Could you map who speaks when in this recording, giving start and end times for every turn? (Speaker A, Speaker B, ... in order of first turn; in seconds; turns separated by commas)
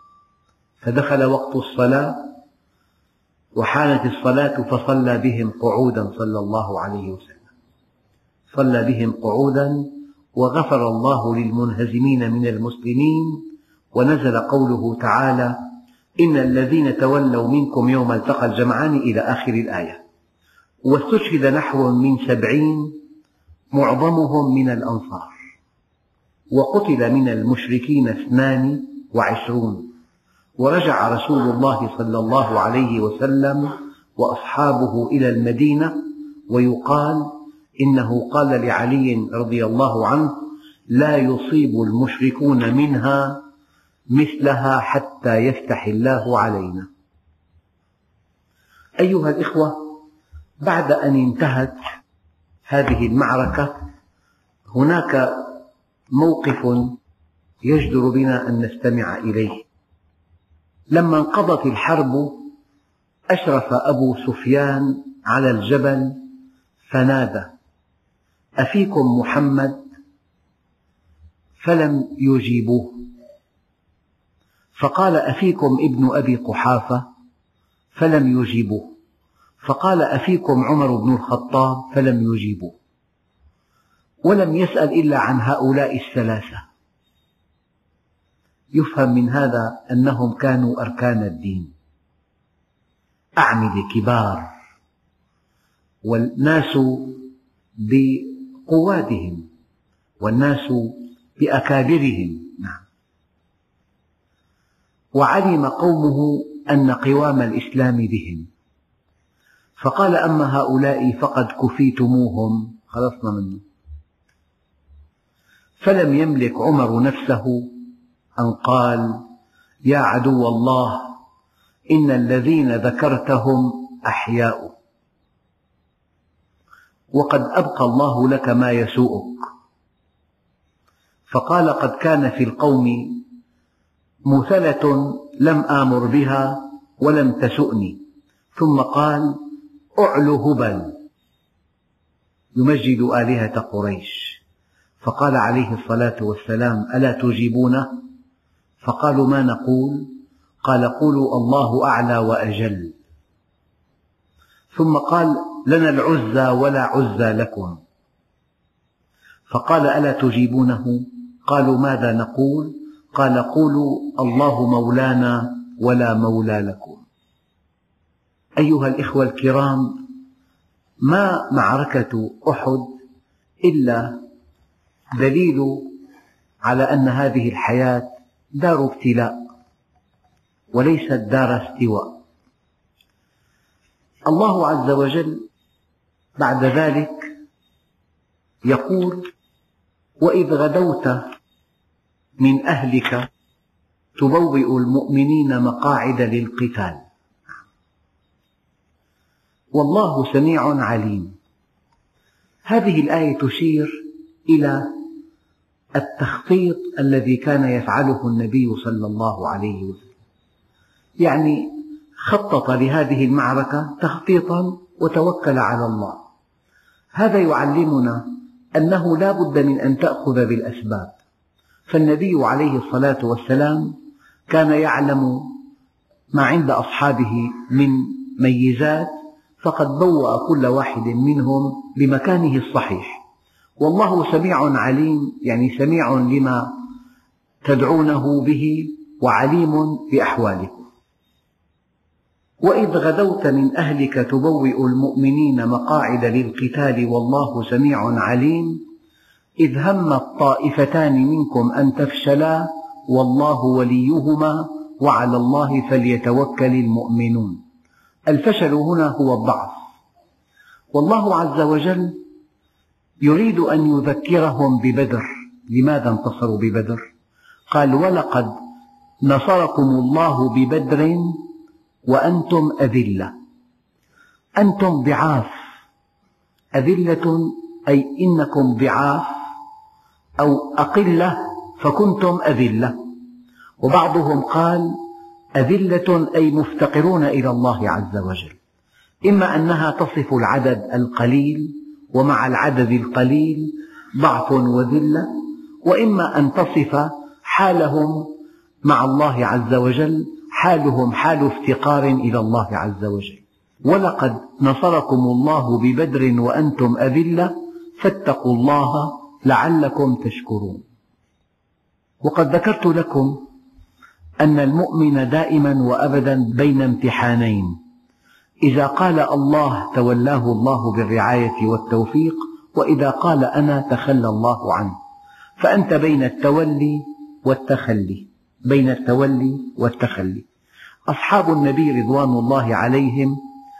Speaker A: 0.8-2.3, Speaker A: 3.5-7.4, Speaker A: 8.5-13.4, Speaker A: 13.9-15.6, Speaker A: 16.2-20.0, Speaker A: 20.8-23.0, Speaker A: 23.7-25.3, Speaker A: 26.5-29.9, Speaker A: 30.6-43.4, Speaker A: 44.1-46.9, Speaker A: 49.0-50.0, Speaker A: 50.6-51.8, Speaker A: 52.7-53.8, Speaker A: 54.7-55.6, Speaker A: 56.1-57.0, Speaker A: 57.6-59.6, Speaker A: 60.9-62.5, Speaker A: 63.3-66.2, Speaker A: 66.9-67.5, Speaker A: 68.6-69.8, Speaker A: 71.6-73.0, Speaker A: 74.8-77.1, Speaker A: 77.9-78.9, Speaker A: 79.6-82.8, Speaker A: 84.2-86.6, Speaker A: 88.7-91.7, Speaker A: 93.4-94.4, Speaker A: 96.0-97.2, Speaker A: 97.8-99.5, Speaker A: 100.2-102.8, Speaker A: 105.1-108.5, Speaker A: 109.8-113.6, Speaker A: 115.8-117.7, Speaker A: 118.4-119.2, Speaker A: 119.8-121.2, Speaker A: 121.9-124.7, Speaker A: 127.1-129.5, Speaker A: 131.3-133.2, Speaker A: 134.3-138.0, Speaker A: 138.5-139.4, Speaker A: 140.0-140.9, Speaker A: 142.5-144.4, Speaker A: 145.0-148.0, Speaker A: 148.8-150.1, Speaker A: 150.6-152.9, Speaker A: 154.7-157.8, Speaker A: 159.5-167.0, Speaker A: 168.6-170.0, Speaker A: 171.0-172.9, Speaker A: 173.6-174.2, Speaker A: 175.2-175.9, Speaker A: 176.6-179.3, Speaker A: 180.7-182.2, Speaker A: 184.2-185.4, Speaker A: 186.4-187.3, Speaker A: 188.6-189.3, Speaker A: 190.2-191.2, Speaker A: 192.4-193.3, Speaker A: 194.2-197.0, Speaker A: 199.7-201.3, Speaker A: 202.7-205.0, Speaker A: 205.9-210.1, Speaker A: 211.2-216.2, Speaker A: 217.2-218.2, Speaker A: 218.8-221.2, Speaker A: 221.9-223.9, Speaker A: 224.5-225.5, Speaker A: 226.3-233.2, Speaker A: 233.8-236.7, Speaker A: 237.6-240.8, Speaker A: 242.6-248.8, Speaker A: 249.6-257.6, Speaker A: 258.3-259.8, Speaker A: 260.9-262.2, Speaker A: 263.2-267.1, Speaker A: 267.7-268.5, Speaker A: 269.2-271.4, Speaker A: 272.1-273.3, Speaker A: 274.6-275.5, Speaker A: 276.8-279.4, Speaker A: 280.4-283.0, Speaker A: 283.8-285.0, Speaker A: 285.6-288.6, Speaker A: 289.2-298.3, Speaker A: 298.8-310.8, Speaker A: 312.2-313.4, Speaker A: 314.4-317.8, Speaker A: 318.6-324.9, Speaker A: 325.6-330.4, Speaker A: 331.1-333.4